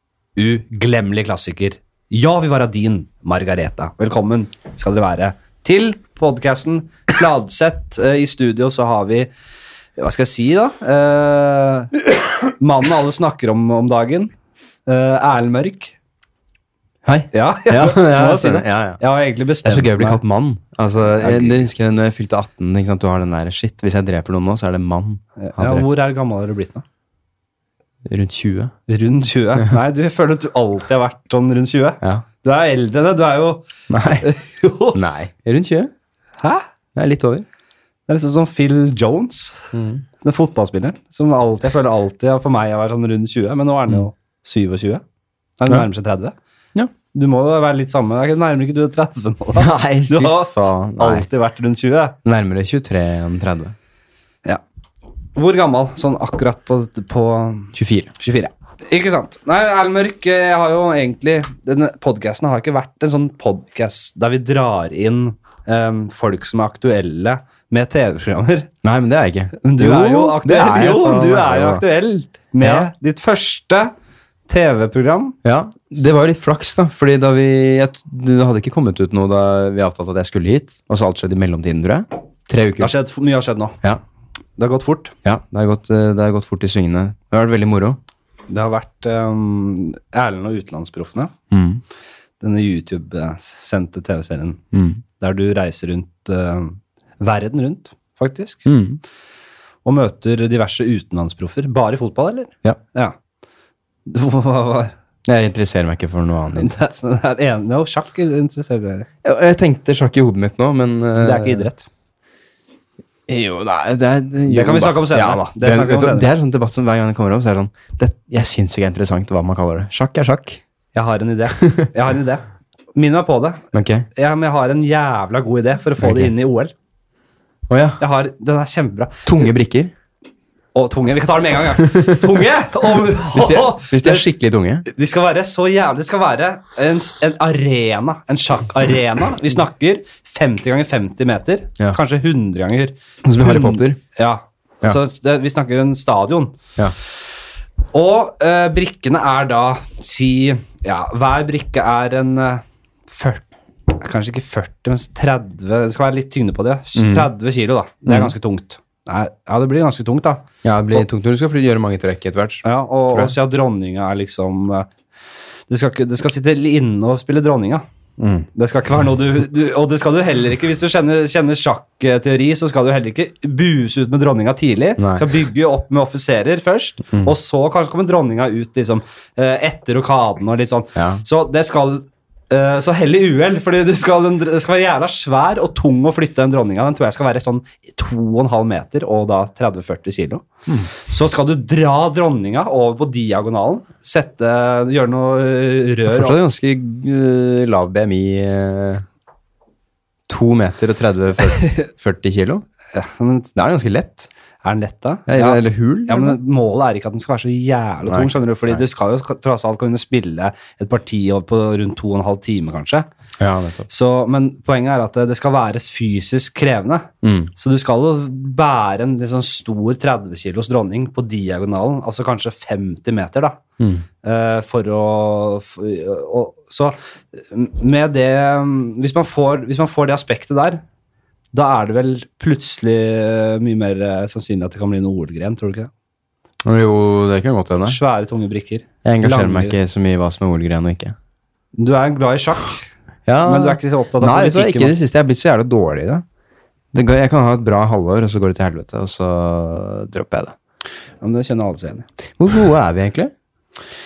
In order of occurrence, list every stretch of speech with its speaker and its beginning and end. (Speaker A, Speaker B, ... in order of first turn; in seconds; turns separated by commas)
Speaker A: 0.4-9.3, Speaker A: 10.0-14.3, Speaker A: 14.9-15.9, Speaker B: 17.1-19.0, Speaker A: 17.3-20.2, Speaker B: 19.6-26.1, Speaker A: 21.1-21.7, Speaker A: 25.4-26.9, Speaker B: 28.1-28.7, Speaker A: 28.9-33.7, Speaker B: 33.9-34.3, Speaker A: 34.2-35.0, Speaker B: 34.9-35.9, Speaker A: 36.4-36.6, Speaker B: 37.0-37.5, Speaker A: 38.1-39.6, Speaker B: 39.7-40.0, Speaker A: 40.2-45.0, Speaker A: 45.6-46.4, Speaker A: 47.1-52.1, Speaker B: 49.6-51.3, Speaker B: 52.2-53.7, Speaker A: 55.4-68.7, Speaker B: 57.7-58.1, Speaker B: 68.8-71.8, Speaker A: 69.6-73.9, Speaker B: 72.6-72.9, Speaker A: 74.5-75.4, Speaker B: 75.4-82.9, Speaker A: 82.8-83.8, Speaker A: 84.6-85.1, Speaker B: 85.2-88.0, Speaker A: 88.5-91.3, Speaker B: 91.5-91.8, Speaker A: 92.4-94.6, Speaker B: 94.7-95.0, Speaker A: 95.2-98.7, Speaker B: 98.7-99.0, Speaker A: 99.8-103.2, Speaker A: 104.1-104.9, Speaker B: 105.2-106.8, Speaker A: 106.6-109.1, Speaker B: 109.2-111.7, Speaker A: 111.2-111.9, Speaker B: 113.3-120.6, Speaker A: 114.5-116.3, Speaker A: 120.9-123.6, Speaker B: 121.5-121.9, Speaker B: 123.7-124.1, Speaker A: 124.2-126.7, Speaker B: 126.0-126.3, Speaker B: 127.7-128.0, Speaker A: 128.0-129.3, Speaker B: 129.2-129.9, Speaker A: 130.8-134.3, Speaker B: 131.9-132.2, Speaker B: 133.3-134.9, Speaker A: 134.9-146.6, Speaker B: 143.2-144.0, Speaker A: 147.9-160.4, Speaker B: 156.9-157.3, Speaker B: 158.1-158.3, Speaker B: 160.6-163.3, Speaker A: 162.6-164.9, Speaker A: 165.7-167.8, Speaker B: 168.2-168.5, Speaker A: 168.6-196.4, Speaker B: 175.0-175.3, Speaker B: 181.0-181.2, Speaker B: 196.1-199.1, Speaker B: 200.3-202.7, Speaker A: 202.9-203.5, Speaker B: 203.6-204.3, Speaker A: 204.6-213.1, Speaker B: 205.3-206.4, Speaker B: 208.1-208.8, Speaker B: 213.4-213.9, Speaker A: 213.9-223.6, Speaker B: 217.2-217.5, Speaker B: 223.8-224.1, Speaker A: 224.2-230.8, Speaker A: 231.5-235.9, Speaker B: 236.6-238.0, Speaker A: 237.9-239.8, Speaker B: 239.0-241.2, Speaker A: 241.8-242.9, Speaker B: 243.3-246.2, Speaker A: 243.4-244.9, Speaker B: 246.9-250.5, Speaker A: 251.2-252.1, Speaker B: 252.4-253.3